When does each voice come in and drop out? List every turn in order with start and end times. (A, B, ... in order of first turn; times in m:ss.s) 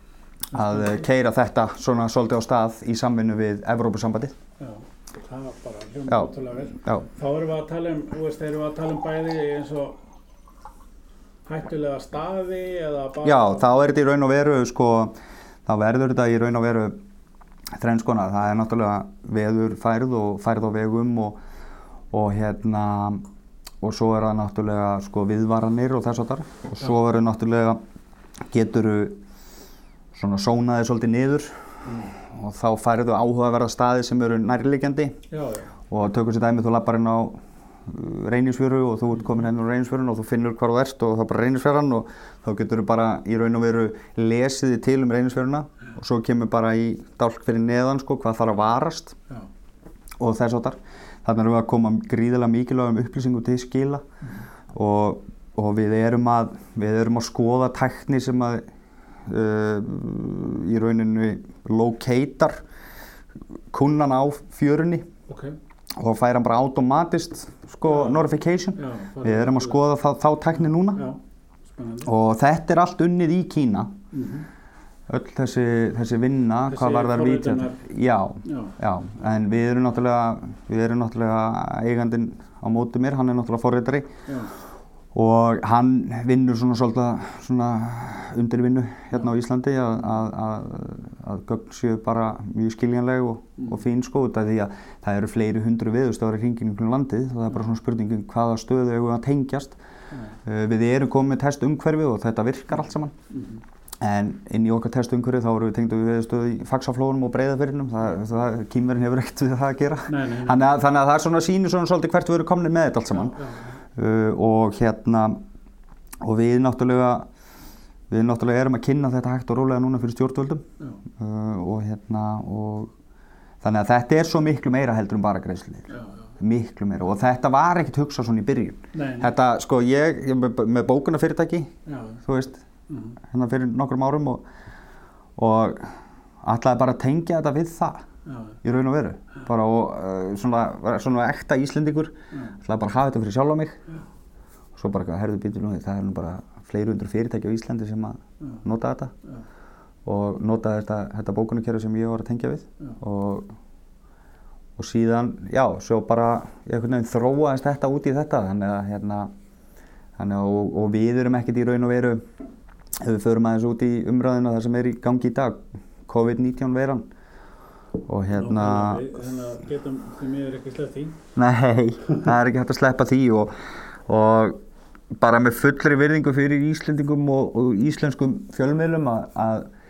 0:00.5-0:04.4 A
0:00.5-0:01.0 B
0:04.6-0:10.0 B
0:06.1-0:07.1 A
0:11.4-0:13.8 B
0:13.2-0:15.1 A
0:15.6-0:17.0 A
0:17.8-0:21.4 A
0:22.1-0:23.3 A
0:23.8-0:27.8 A
0:28.5-0:29.2 A
0:30.1-0:35.2 A
0:31.8-0:32.1 B
0:35.3-0:35.7 B
0:35.9-0:49.2 A
0:50.2-0:54.0 A
0:54.7-0:58.6 A
0:59.2-1:02.6 A
1:03.7-1:05.1 A
1:05.3-1:05.6 B
1:06.0-1:11.0 A
1:07.9-1:09.8 B
1:10.9-1:12.1 B
1:12.0-1:13.9 A
1:14.1-1:14.5 B
1:15.1-1:24.1 A
1:16.7-1:17.8 B
1:18.4-1:18.8 B
1:24.3-1:24.5 B
1:25.1-1:39.8 A
1:40.1-1:40.4 B
1:40.4-1:43.1 A
1:43.3-1:43.6 B
1:44.0-1:53.4 A
1:50.1-1:50.6 B
1:53.1-1:53.7 B
1:53.9-1:55.4 A
1:56.2-1:57.3 A
1:58.1-2:00.6 A
2:01.2-2:02.9 A
2:03.6-2:11.7 A
2:05.9-2:06.2 B
2:08.9-2:09.3 B
2:11.8-2:12.2 B
2:12.2-2:12.6 A
2:12.9-2:13.2 B
2:13.2-2:14.4 A
2:15.4-2:18.0 A
2:18.2-2:18.6 B
2:18.6-2:23.8 A
2:24.8-2:29.1 A
2:30.0-2:33.5 A
2:34.8-2:39.3 A
2:40.2-2:42.2 A
2:43.0-2:47.1 A
2:48.0-2:49.2 A
2:48.3-2:51.2 B
2:51.4-2:53.5 A
2:54.0-2:54.6 A
2:55.2-2:59.7 A